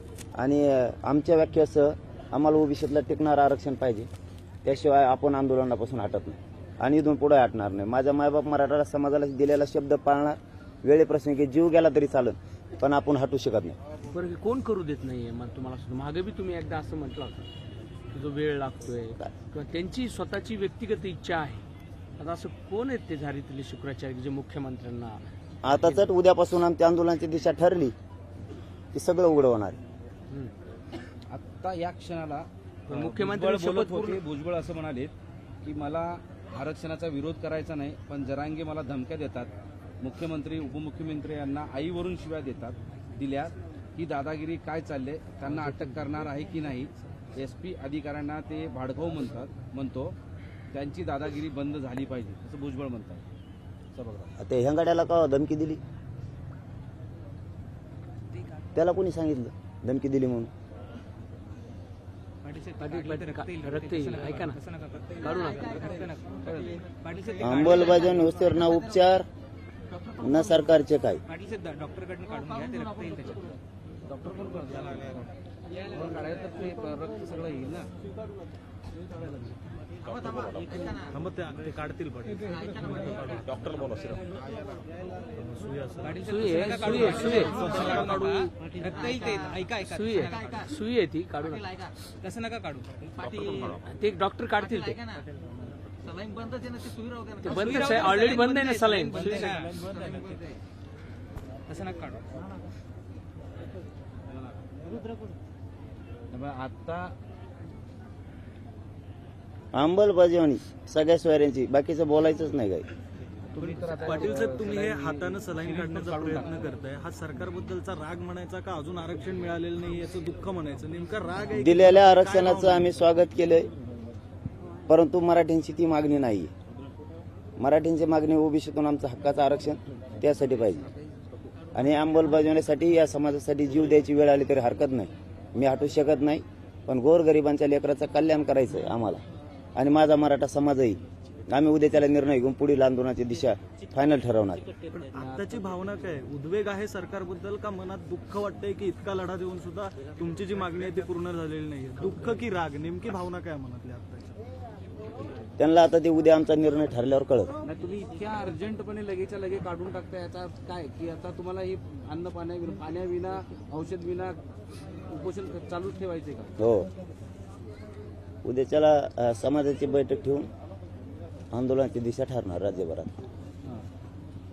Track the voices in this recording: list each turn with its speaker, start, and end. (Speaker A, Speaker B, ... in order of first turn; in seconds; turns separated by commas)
Speaker A: 0.4-4.1, Speaker A: 4.6-13.8, Speaker B: 14.1-17.5, Speaker B: 18.1-21.6, Speaker B: 22.2-26.1, Speaker A: 25.6-27.9, Speaker A: 28.9-29.8, Speaker C: 31.3-50.1, Speaker B: 32.9-34.2, Speaker B: 45.5-46.1, Speaker C: 50.7-53.2, Speaker C: 53.9-54.3, Speaker A: 54.4-55.8, Speaker A: 58.8-60.5, Speaker D: 62.4-68.3, Speaker B: 62.8-64.6, Speaker B: 65.2-65.9, Speaker C: 66.4-66.8, Speaker A: 67.4-69.3, Speaker A: 70.2-71.2, Speaker D: 71.3-73.6, Speaker C: 74.1-75.3, Speaker C: 75.9-77.9, Speaker E: 81.1-83.9, Speaker E: 85.4-86.2, Speaker D: 86.0-90.6, Speaker B: 86.2-87.7, Speaker E: 87.0-88.5, Speaker B: 89.8-91.7, Speaker D: 91.6-93.8, Speaker B: 93.8-95.0, Speaker D: 94.7-95.0, Speaker D: 96.1-100.6, Speaker B: 97.4-99.5, Speaker D: 101.7-102.2, Speaker C: 106.3-107.1, Speaker A: 109.7-112.9, Speaker C: 113.5-116.5, Speaker E: 113.9-122.8, Speaker A: 121.5-123.7, Speaker A: 124.9-126.5, Speaker A: 127.6-130.9, Speaker A: 131.8-139.2, Speaker A: 139.8-144.6, Speaker E: 144.9-154.4, Speaker C: 145.1-145.4, Speaker A: 155.6-157.5, Speaker C: 157.6-164.4, Speaker C: 165.1-166.5, Speaker A: 166.6-166.9, Speaker A: 168.4-170.5, Speaker A: 171.5-173.1